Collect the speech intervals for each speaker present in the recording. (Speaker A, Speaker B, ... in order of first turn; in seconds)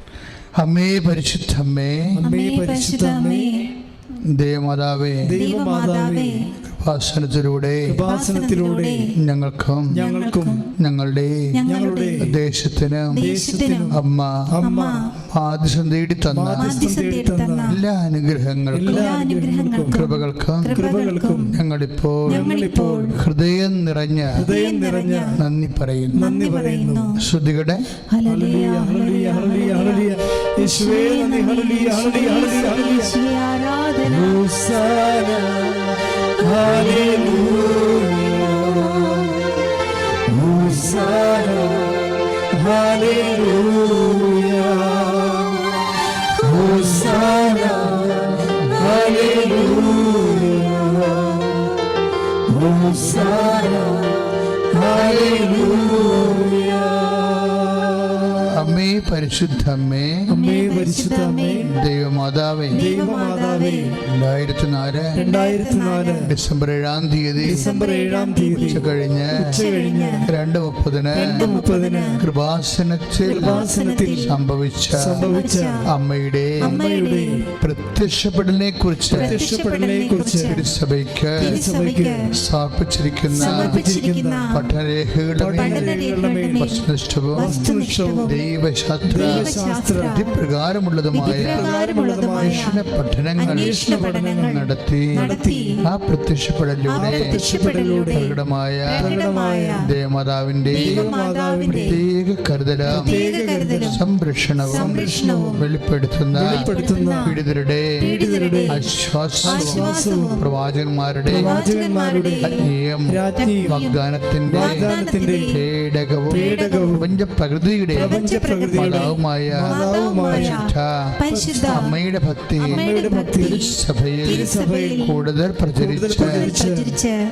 Speaker A: 0.6-2.1, 4.2-5.3, 6.6-8.0, 9.1-9.9, 10.8-11.5, 12.2-13.2, 13.9-14.5, 15.2-16.9, 17.7-19.0, 19.9-20.8, 21.5-22.5, 23.1-24.4, 25.3-26.2, 27.2-27.8, 55.0-55.5, 58.5-60.2, 61.7-62.8, 64.0-65.1, 66.2-67.7, 68.7-69.6, 70.3-71.5, 72.2-75.3, 75.8-76.7, 77.6-79.4, 80.4-81.5, 82.3-83.7, 84.5-86.0, 86.5-87.7, 88.2-89.5, 90.0-91.7, 92.4-93.9, 94.4-95.2, 95.8-97.3, 98.1-99.1, 99.8-101.1, 101.7-103.2, 103.8-106.7, 107.2-108.0, 108.7-111.6, 112.4-114.9, 115.5-121.1, 121.7-124.5, 125.0-126.5
Speaker B: 2.1-3.7, 5.2-6.5, 7.9-9.1, 9.9-10.6, 11.6-12.4, 13.1-15.0, 16.3-17.8, 18.7-20.1, 20.7-21.5, 22.3-23.2, 24.3-25.4, 26.1-27.2, 28.2-33.1, 34.0-39.5, 40.2-51.7, 52.4-54.2, 54.7-58.5, 60.3-61.7, 62.7-63.9, 65.1-66.3, 67.5-70.3, 71.1-72.2, 73.2-74.3, 74.9-75.8, 76.6-77.5, 79.1-80.6, 81.4-82.3, 83.4-84.6, 85.4-86.8, 87.3-88.3, 89.1-90.2, 91.2-92.8, 93.4-95.8, 97.0-99.8, 100.7-102.0, 102.9-104.0, 104.7-105.6, 106.3-107.4, 108.0-108.8, 109.4-110.4, 111.2-113.8, 114.5-115.5, 116.3-117.1, 117.9-120.7, 121.3-121.9, 122.6-123.7, 124.2-125.2, 125.8-127.0
Speaker C: 2.2-3.7, 5.4-6.5, 8.1-9.1, 10.0-10.7, 11.5-12.2, 13.1-13.9, 14.6-15.1, 16.6-17.8, 18.9-21.5, 22.3-23.1, 24.5-25.4, 26.2-27.2, 28.1-34.4, 60.3-61.7, 62.7-63.9, 65.2-66.3, 67.4-68.8, 69.5-70.3, 71.2-72.2, 73.2-74.4, 75.2-75.8, 76.6-77.4, 79.1-80.7, 81.4-82.2, 83.3-84.6, 85.6-88.5, 89.1-90.3, 91.1-92.8, 93.4-95.8, 96.9-98.3, 98.9-99.8, 100.7-102.0, 102.9-104.0, 104.7-105.6, 106.4-107.4, 108.0-108.8, 109.4-110.4, 111.3-112.7, 113.4-114.0, 114.6-115.6, 116.3-117.1, 117.9-121.9, 122.6-123.7, 124.2-125.2, 126.2-127.1